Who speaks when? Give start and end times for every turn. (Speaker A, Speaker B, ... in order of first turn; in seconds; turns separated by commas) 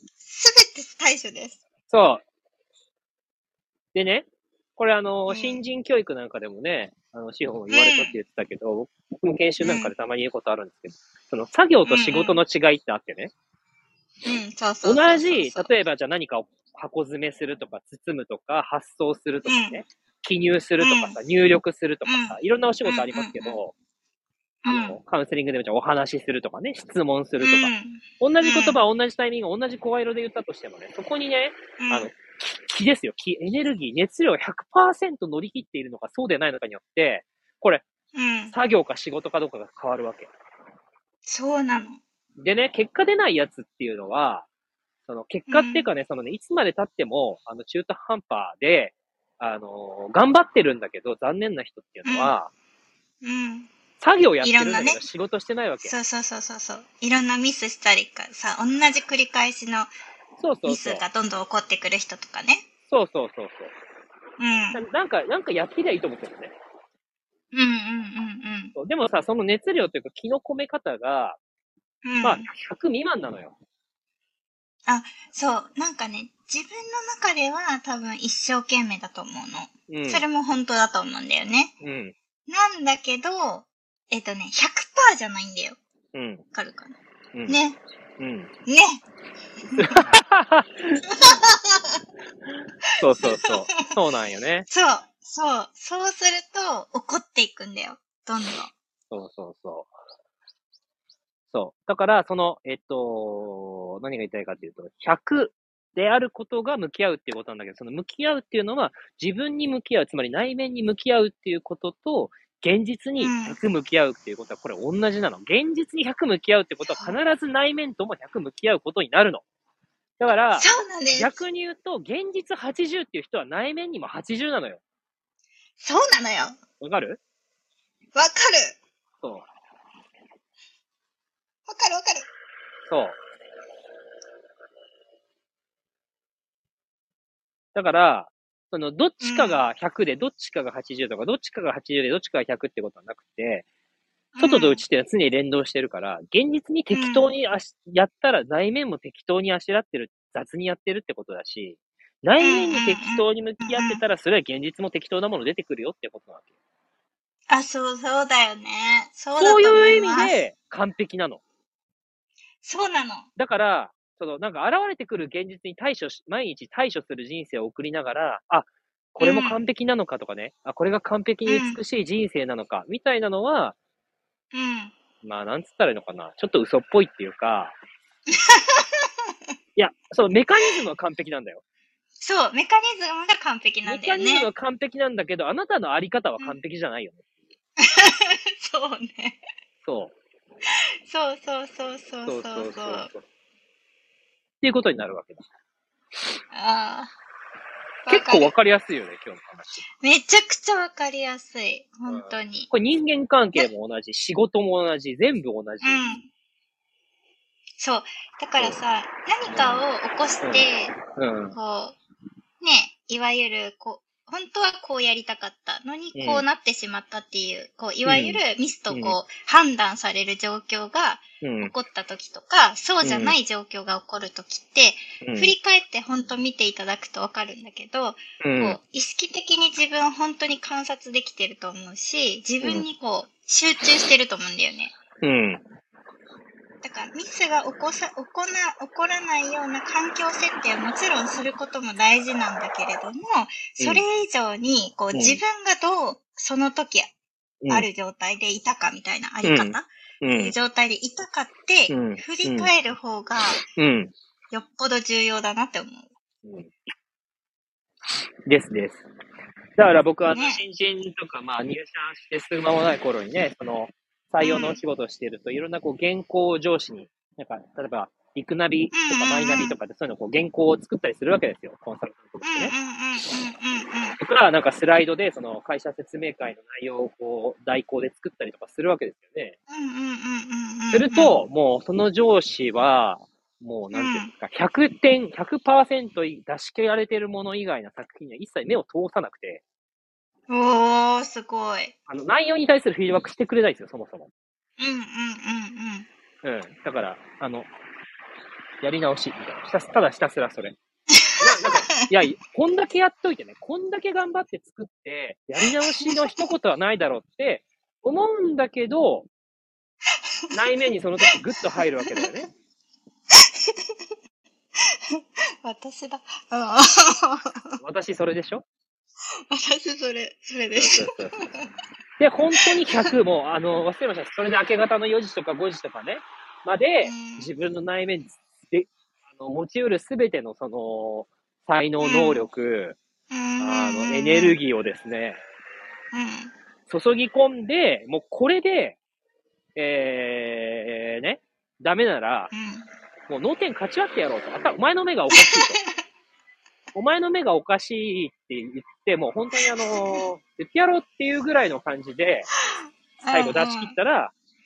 Speaker A: 0.2-1.6, Speaker B: 1.9-2.2, Speaker B: 3.9-13.3, Speaker A: 5.3-5.6, Speaker A: 7.7-8.1, Speaker A: 9.6-9.9, Speaker A: 11.8-12.4, Speaker A: 14.2-15.7, Speaker B: 14.8-23.7, Speaker A: 19.4-19.8, Speaker A: 20.8-21.2, Speaker A: 22.1-23.6, Speaker A: 24.6-25.0, Speaker B: 24.6-37.8, Speaker A: 27.4-28.8, Speaker A: 31.8-32.1, Speaker A: 38.1-38.5, Speaker B: 38.5-40.3, Speaker A: 41.2-42.0, Speaker B: 42.4-44.5, Speaker B: 45.1-52.5, Speaker A: 45.5-45.9, Speaker A: 52.0-52.3, Speaker A: 53.2-53.7, Speaker B: 54.0-55.9, Speaker A: 54.4-55.0, Speaker A: 55.8-59.9, Speaker B: 60.4-61.0, Speaker A: 60.6-62.6, Speaker B: 62.9-63.7, Speaker A: 64.4-64.8, Speaker B: 64.7-66.5, Speaker A: 67.5-68.7, Speaker B: 68.8-71.4, Speaker A: 72.0-72.5, Speaker B: 72.2-73.5, Speaker A: 74.9-81.7, Speaker B: 79.9-80.2, Speaker B: 81.8-82.1, Speaker A: 82.5-85.8, Speaker B: 86.1-86.4, Speaker A: 86.5-87.0, Speaker A: 87.5-87.8, Speaker B: 88.2-88.5, Speaker A: 88.7-89.0, Speaker A: 89.7-90.1, Speaker B: 89.8-91.0, Speaker A: 91.1-92.0, Speaker B: 92.5-94.7, Speaker A: 93.2-93.8, Speaker A: 94.7-98.7, Speaker B: 99.1-99.9, Speaker B: 101.5-119.4, Speaker A: 113.2-113.6, Speaker A: 116.9-117.2, Speaker B: 120.2-124.8, Speaker A: 120.5-121.3, Speaker A: 125.8-126.6, Speaker B: 126.8-127.2, Speaker A: 128.1-128.8, Speaker B: 129.2-129.5, Speaker A: 131.7-132.3, Speaker B: 132.9-133.2, Speaker B: 137.7-143.7, Speaker A: 139.2-139.6, Speaker A: 144.3-144.8, Speaker B: 144.4-156.4, Speaker A: 146.9-147.3, Speaker A: 152.4-154.0, Speaker A: 157.5-160.3, Speaker B: 159.4-161.4, Speaker A: 162.6-163.3, Speaker B: 163.3-173.8, Speaker A: 169.2-169.6, Speaker A: 171.4-171.8, Speaker A: 174.5-174.9, Speaker B: 175.2-177.8, Speaker A: 178.3-179.3, Speaker B: 179.8-181.6, Speaker A: 182.2-184.5, Speaker B: 183.8-187.3, Speaker A: 187.8-189.4, Speaker B: 189.8-190.1, Speaker A: 191.1-193.1, Speaker B: 192.2-193.2, Speaker B: 194.6-195.4, Speaker A: 196.5-197.1, Speaker A: 198.0-198.5, Speaker B: 198.1-199.8, Speaker A: 200.0-202.7, Speaker B: 202.1-206.0, Speaker A: 205.8-206.3, Speaker A: 207.8-211.0, Speaker B: 208.6-208.8, Speaker B: 209.5-209.8, Speaker B: 210.4-211.6, Speaker A: 211.5-212.0, Speaker A: 212.6-234.9, Speaker B: 216.1-216.4, Speaker B: 218.1-219.2, Speaker B: 221.4-221.7, Speaker B: 223.0-223.3, Speaker B: 225.2-225.5, Speaker B: 228.4-228.8, Speaker B: 235.2-235.6, Speaker A: 236.8-247.1, Speaker B: 243.8-244.0, Speaker B: 245.1-245.4, Speaker B: 247.6-247.9, Speaker A: 247.7-253.6, Speaker B: 249.4-250.5, Speaker B: 251.9-252.7, Speaker B: 253.7-254.1, Speaker A: 254.5-256.1, Speaker B: 256.4-256.7, Speaker B: 258.4-259.1, Speaker B: 259.8-272.7, Speaker A: 260.3-260.6, Speaker A: 264.4-264.8, Speaker A: 268.9-269.8, Speaker A: 272.4-274.2, Speaker B: 274.2-279.6, Speaker A: 279.7-281.4, Speaker B: 280.9-289.6, Speaker A: 283.9-284.3, Speaker A: 290.5-291.9, Speaker B: 292.1-294.3, Speaker A: 294.8-296.1, Speaker B: 296.4-297.7, Speaker B: 298.8-300.8, Speaker A: 301.1-302.0, Speaker B: 301.4-309.3, Speaker A: 306.0-306.4, Speaker B: 310.5-312.5, Speaker A: 312.0-312.3, Speaker A: 313.3-313.9, Speaker A: 314.8-317.8, Speaker B: 317.8-318.6, Speaker A: 319.5-321.7, Speaker B: 320.7-321.3, Speaker B: 322.2-333.0, Speaker A: 322.6-323.1, Speaker A: 327.0-327.5, Speaker A: 332.0-332.4, Speaker A: 333.3-334.6, Speaker B: 333.6-335.4, Speaker A: 336.1-336.5, Speaker B: 336.9-339.0, Speaker B: 339.7-342.5, Speaker A: 342.5-342.9, Speaker B: 343.3-345.8, Speaker A: 345.3-346.0, Speaker B: 346.9-352.5, Speaker A: 349.9-350.3, Speaker A: 352.5-354.0, Speaker B: 353.3-354.3